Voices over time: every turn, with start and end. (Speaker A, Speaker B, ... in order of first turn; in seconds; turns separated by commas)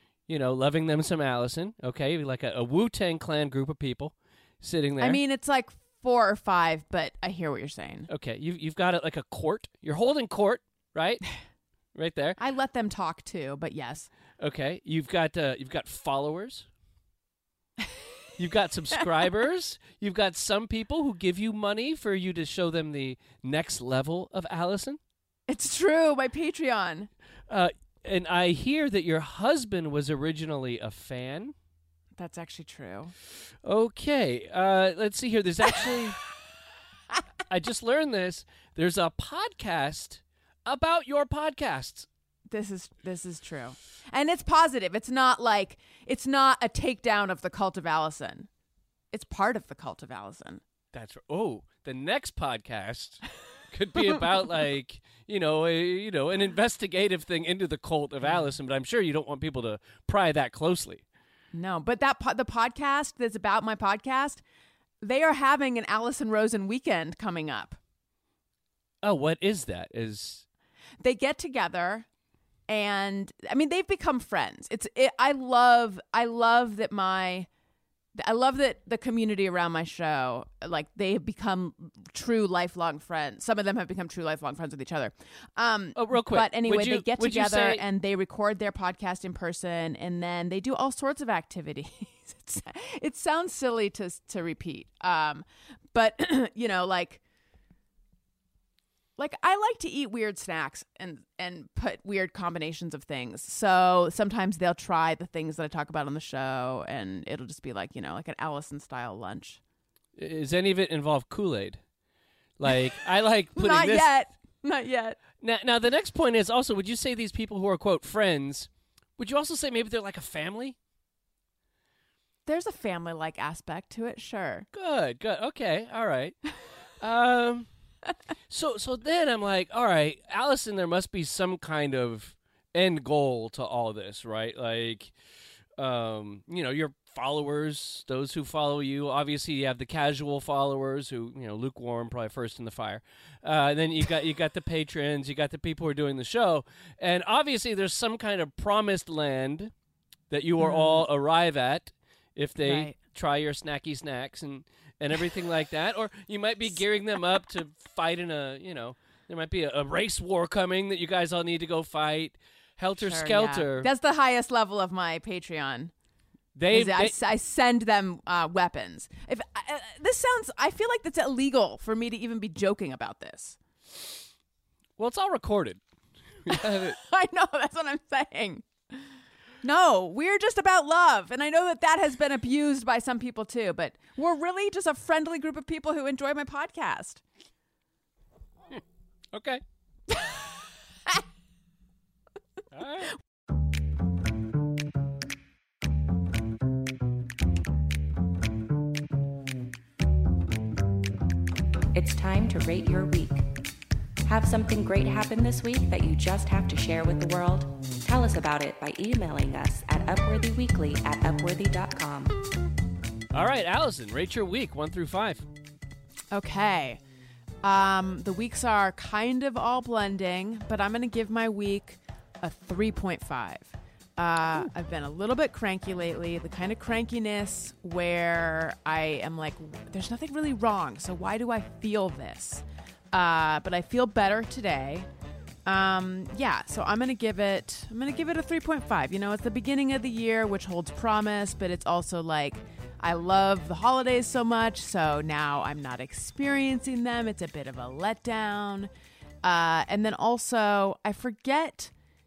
Speaker A: 0.3-5.2, Speaker B: 5.0-8.1, Speaker A: 8.1-11.2, Speaker A: 11.9-12.4, Speaker B: 12.4-14.1, Speaker A: 14.4-16.7, Speaker A: 18.4-25.0, Speaker B: 25.5-27.1, Speaker A: 27.5-31.6, Speaker B: 32.2-33.1, Speaker A: 33.6-36.2, Speaker A: 37.5-42.1, Speaker B: 42.5-48.5, Speaker B: 49.1-50.6, Speaker A: 50.9-61.0, Speaker B: 61.5-64.4, Speaker B: 65.0-67.8, Speaker A: 69.0-70.5, Speaker B: 71.0-72.1, Speaker B: 72.7-77.5, Speaker B: 78.2-97.2, Speaker A: 86.0-87.8, Speaker B: 99.2-109.6, Speaker A: 110.2-111.8, Speaker A: 112.6-114.1, Speaker B: 113.5-115.2, Speaker A: 115.4-120.8, Speaker B: 122.5-124.7, Speaker A: 124.7-126.4, Speaker A: 127.0-127.7, Speaker A: 128.5-135.1, Speaker A: 135.8-149.7, Speaker A: 150.3-163.9, Speaker B: 150.6-151.1, Speaker B: 152.6-153.0, Speaker B: 163.0-165.9, Speaker A: 166.6-167.2, Speaker B: 166.7-173.6, Speaker A: 175.0-175.8, Speaker A: 176.4-177.0, Speaker B: 176.5-179.1, Speaker B: 179.6-187.2, Speaker A: 188.7-189.6, Speaker B: 190.1-190.4, Speaker A: 192.7-193.1, Speaker C: 201.9-203.4, Speaker C: 204.3-212.3, Speaker A: 213.3-215.5, Speaker B: 216.3-217.0, Speaker B: 217.6-235.1, Speaker B: 235.7-248.9, Speaker B: 249.4-251.9